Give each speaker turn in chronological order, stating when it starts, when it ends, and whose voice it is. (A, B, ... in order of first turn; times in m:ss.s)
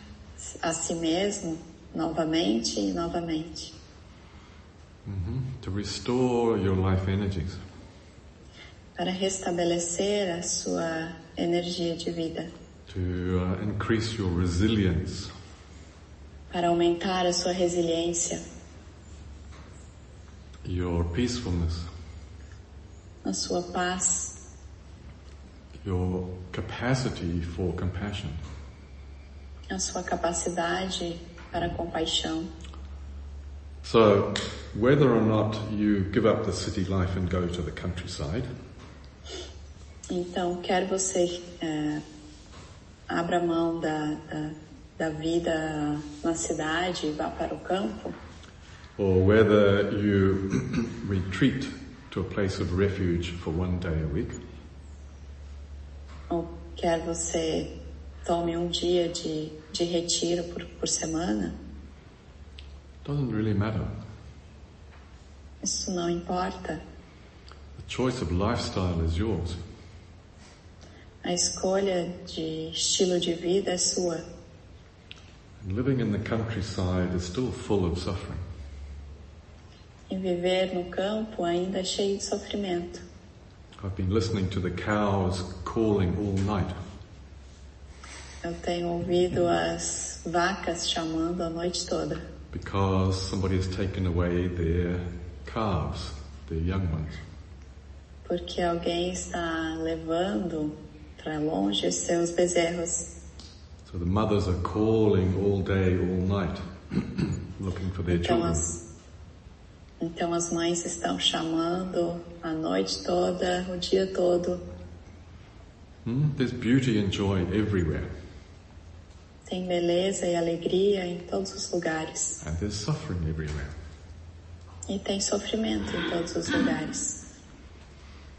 0:00.4-0:03.7 A
0:05.0-0:07.6 B
0:09.0-0:12.5 A
0:12.9-0:15.3 B
0:16.5-0:18.4 A
0:20.6-0:21.9 B
0:23.2-0:24.3 A
0:25.8-0:28.4 B
0:29.7-0:32.5 A
0:33.8-0:38.5 B
0:40.1-0:42.0 A
0:43.1-0:48.2 A
0:49.0-0:54.4 B
0:56.3-0:57.7 A
0:58.2-1:01.6 A
1:03.0-1:03.9 B
1:05.6-1:06.8 A
1:07.8-1:09.6 B
1:11.2-1:14.2 A
1:15.6-1:18.4 B
1:20.1-1:23.0 A
1:23.8-1:26.8 B
1:28.4-1:32.2 A
1:32.5-1:37.2 B
1:38.2-1:43.1 A
1:43.8-1:48.6 B
1:48.1-1:48.8 A
1:50.0-1:54.6 A
1:56.0-1:58.1 B
1:59.5-2:02.4 A
2:02.4-2:03.7 B
2:04.9-2:07.2 A